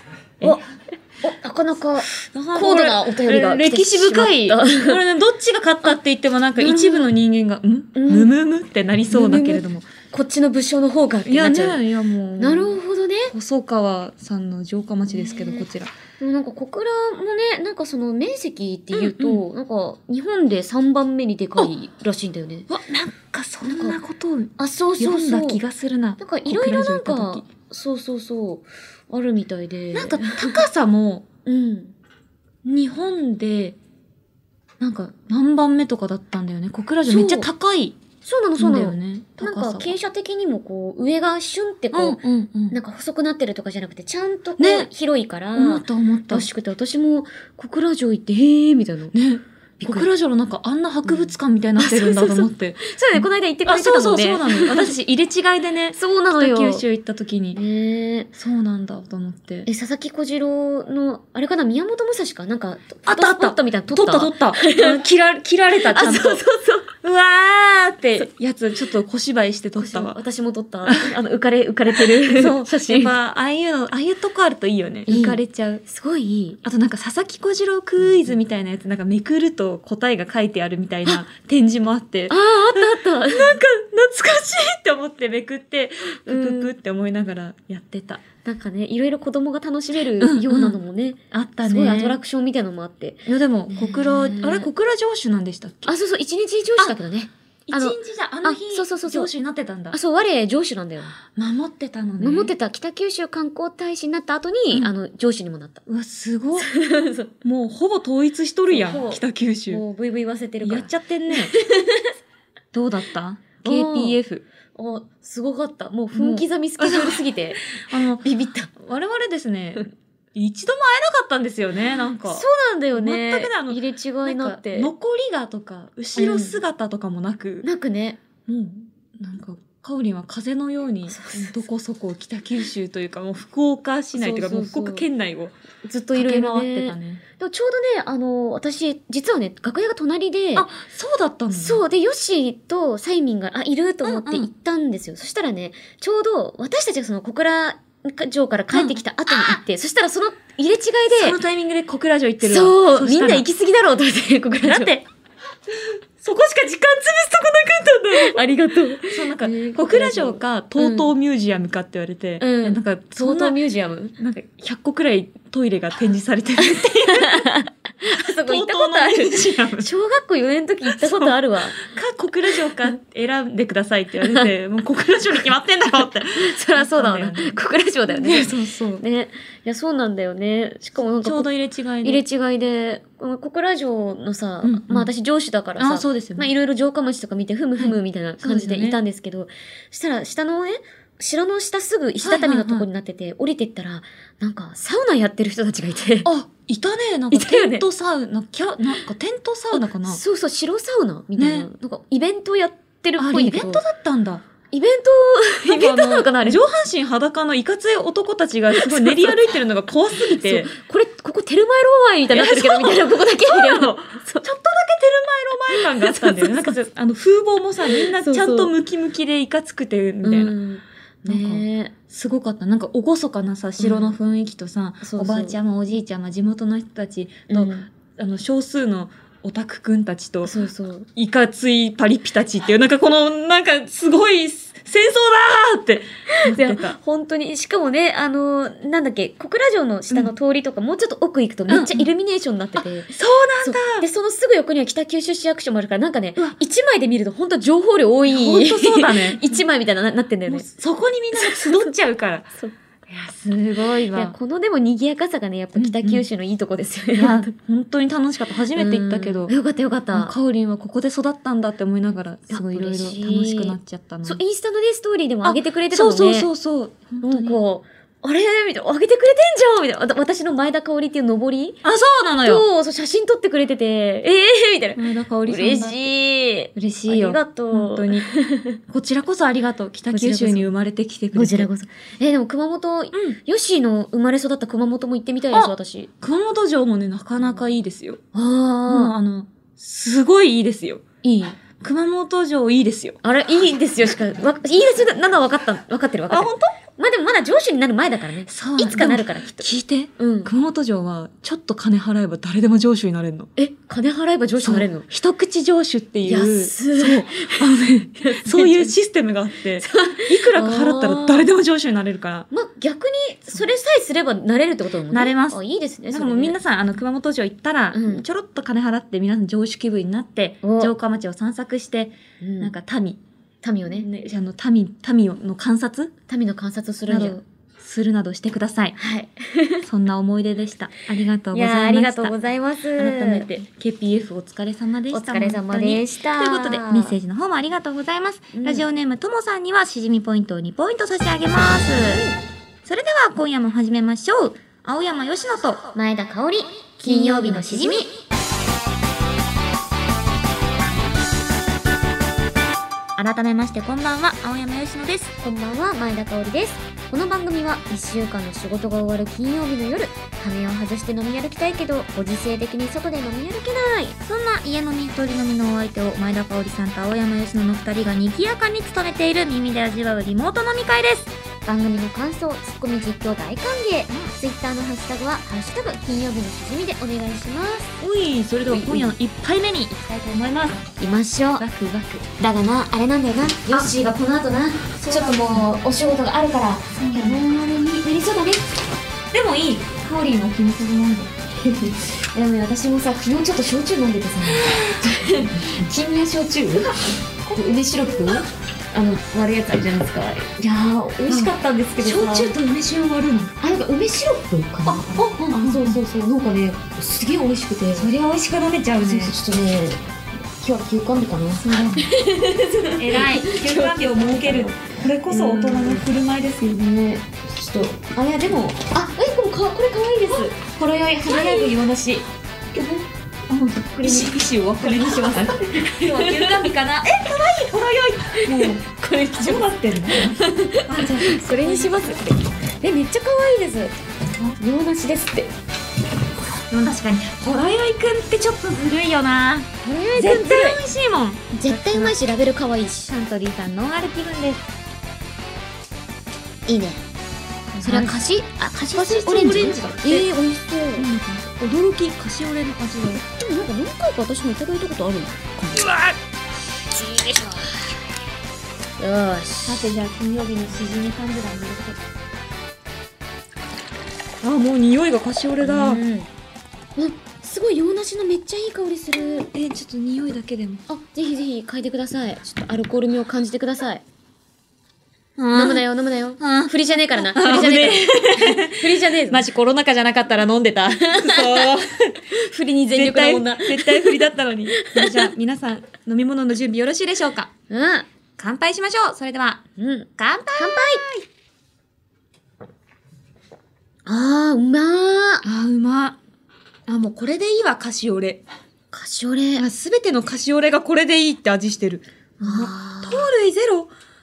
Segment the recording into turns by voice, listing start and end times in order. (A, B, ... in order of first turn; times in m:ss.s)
0:00.4-0:00.7 A
0:01.2-0:05.0 A
0:02.2-0:09.9 B
0:06.6-0:07.1 A
0:07.9-0:08.4 A
0:09.1-0:11.8 A
0:11.2-0:12.8 B
0:12.4-0:13.3 A
0:13.3-0:15.9 B
0:15.1-0:15.6 A
0:16.2-0:22.7 A
0:18.9-0:19.4 B
0:22.7-0:27.5 B
0:23.6-0:24.0 A
0:24.6-0:25.6 A
0:26.2-0:30.6 A
0:29.9-0:31.3 B
0:31.4-0:31.9 A
0:32.6-0:33.8 B
0:34.8-0:38.0 B
0:37.1-0:37.5 A
0:38.2-0:49.1 A
0:38.6-0:40.0 B
0:41.9-0:42.8 B
0:44.6-0:44.9 B
0:45.5-0:46.5 B
0:49.1-0:57.6 B
0:49.8-0:50.1 A
0:51.0-0:54.9 A
0:55.9-0:56.8 A
0:57.5-0:58.3 A
0:58.4-0:59.7 B
0:59.6-1:05.0 A
1:03.0-1:10.2 B
1:05.8-1:06.9 A
1:09.8-1:13.1 A
1:10.8-1:11.2 B
1:12.0-1:15.8 B
1:15.1-1:16.6 A
1:16.6-1:28.2 B
1:22.3-1:23.6 A
1:26.3-1:26.7 A
1:28.4-1:34.7 A
1:30.2-1:30.8 B
1:31.3-1:32.2 B
1:33.2-1:35.9 B
1:35.8-1:39.3 A
1:37.7-1:40.0 B
1:39.9-1:41.2 A
1:41.2-1:42.5 B
1:42.2-1:45.8 A
1:45.9-1:46.7 B
1:46.6-1:47.3 A
1:47.4-1:49.8 B
1:48.7-1:52.1 A
1:50.6-1:51.5 B
1:52.7-1:54.4 B
1:53.6-1:54.2 A
1:54.7-1:57.7 A
1:56.1-1:58.2 B
1:58.2-1:58.7 A
1:58.8-2:07.7 B
2:02.2-2:04.9 A
2:06.2-2:06.6 A
2:07.6-2:08.2 A
2:08.4-2:15.5 B
2:11.1-2:11.5 A
2:14.1-2:15.1 A
2:15.8-2:20.7 A
2:16.1-2:17.2 B
2:20.5-2:21.8 B
2:21.5-2:31.4 A
2:24.0-2:24.5 B
2:28.7-2:29.6 B
2:31.1-2:33.4 B
2:32.4-2:34.9 A
2:34.6-2:35.0 B
2:35.7-2:38.4 B
2:38.1-2:41.1 A
2:38.9-2:43.6 B
2:42.4-2:44.2 A
2:44.2-2:49.9 B
2:46.8-2:51.8 A
2:50.9-2:59.0 B
2:56.3-3:01.5 A
3:01.0-3:02.2 B
3:02.0-3:16.3 A
3:04.6-3:05.1 B
3:05.8-3:06.5 B
3:07.8-3:09.0 B
3:12.2-3:12.9 B
3:16.2-3:20.2 B
3:17.3-3:17.8 A
3:19.7-3:23.8 A
3:21.4-3:21.7 B
3:23.2-3:24.4 B
3:24.7-3:26.6 A
3:25.7-3:30.7 B
3:28.7-3:29.4 A
3:30.3-3:34.5 A
3:32.3-3:40.6 B
3:35.7-3:36.8 A
3:37.9-3:38.7 A
3:40.2-3:41.9 A
3:41.2-3:50.6 B
3:43.8-3:44.1 A
3:45.0-3:45.6 A
3:47.5-3:47.9 A
3:50.4-3:51.1 A
3:51.2-3:57.0 B
3:56.3-4:10.7 A
4:01.7-4:02.1 B
4:03.1-4:04.0 B
4:08.2-4:09.6 B
4:10.4-4:12.5 B
4:11.3-4:11.9 A
4:13.1-4:14.3 B
4:14.1-4:17.5 A
4:15.8-4:16.2 B
4:17.1-4:19.5 B
4:18.8-4:20.3 A
4:20.1-4:24.4 B
4:22.5-4:26.5 A
4:25.4-4:27.6 B
4:27.2-4:31.8 A
4:31.8-4:32.6 B
4:32.4-4:38.8 A
4:35.0-4:36.1 B
4:36.7-4:38.2 B
4:38.9-4:41.7 B
4:40.1-4:40.7 A
4:41.3-4:46.1 A
4:43.1-4:43.4 B
4:45.5-4:48.2 B
4:48.3-4:49.1 A
4:48.8-4:51.0 B
4:51.2-4:51.6 A
4:51.8-4:53.2 B
4:53.2-5:00.5 A
4:56.3-4:56.7 B
4:58.5-5:03.5 B
5:03.6-5:05.1 A
5:04.6-5:12.5 B
5:06.2-5:08.9 A
5:09.8-5:11.4 A
5:12.5-5:16.6 A
5:15.1-5:23.2 B
5:17.9-5:18.2 A
5:20.6-5:20.9 A
5:22.4-5:22.7 A
5:23.6-5:24.3 A
5:23.9-5:26.1 B
5:26.3-5:27.4 A
5:27.1-5:29.0 B
5:29.0-5:29.8 A
5:29.8-5:32.4 B
5:31.5-5:33.6 A
5:33.0-5:42.3 B
5:35.1-5:37.2 A
5:38.5-5:38.8 A
5:42.8-5:45.9 B
5:45.9-5:48.1 A
5:47.0-5:48.1 B
5:53.2-5:55.3 B
5:55.4-6:04.2 A
6:04.2-6:11.3 B
6:11.6-6:18.0 A
6:18.0-6:20.8 B
6:18.7-6:19.1 A
6:21.0-6:21.6 A
6:21.6-6:22.2 B
6:22.4-6:28.7 A
6:25.0-6:25.7 B
6:27.0-6:27.4 B
6:29.3-6:31.3 B
6:31.6-6:37.0 A
6:34.5-6:35.4 B
6:36.8-6:38.4 B
6:37.5-6:42.5 A
6:41.3-6:43.6 B
6:43.6-6:48.1 A
6:44.8-6:46.0 B
6:47.9-6:49.4 B
6:49.0-6:50.0 A
6:50.6-6:56.0 A
6:51.6-6:52.1 B
6:53.0-6:56.9 B
6:56.7-7:02.1 A
7:00.3-7:00.6 B
7:01.2-7:02.2 B
7:02.7-7:03.0 A
7:03.5-7:08.8 B
7:04.0-7:06.7 A
7:08.3-7:13.9 A
7:09.3-7:12.2 B
7:14.6-7:15.5 A
7:16.6-7:22.1 B
7:19.8-7:20.8 A
7:21.5-7:23.1 A
7:23.1-7:24.6 B
7:26.7-7:27.0 A
7:27.7-7:28.2 B
7:27.8-7:31.1 A
7:28.9-7:30.3 B
7:31.0-7:33.2 B
7:33.3-7:35.9 A
7:35.7-7:36.2 B
7:37.0-7:37.6 A
7:39.0-7:39.8 A
7:39.6-7:42.0 B
7:44.4-7:46.0 B
7:45.6-7:46.3 A
7:47.0-7:49.5 A
7:49.5-7:50.8 B
7:50.9-7:54.0 A
7:55.4-7:55.8 B
7:55.5-7:59.5 A
7:56.4-8:02.3 B
8:01.0-8:05.3 A
8:02.9-8:07.5 B
8:07.7-8:08.1 A
8:08.4-8:09.6 B
8:09.8-8:11.0 A
8:10.2-8:11.2 B
8:14.0-8:15.4 A
8:15.4-8:16.2 B
8:16.9-8:18.4 B
8:18.9-8:19.6 A
8:19.6-8:23.9 B
8:22.4-8:23.3 A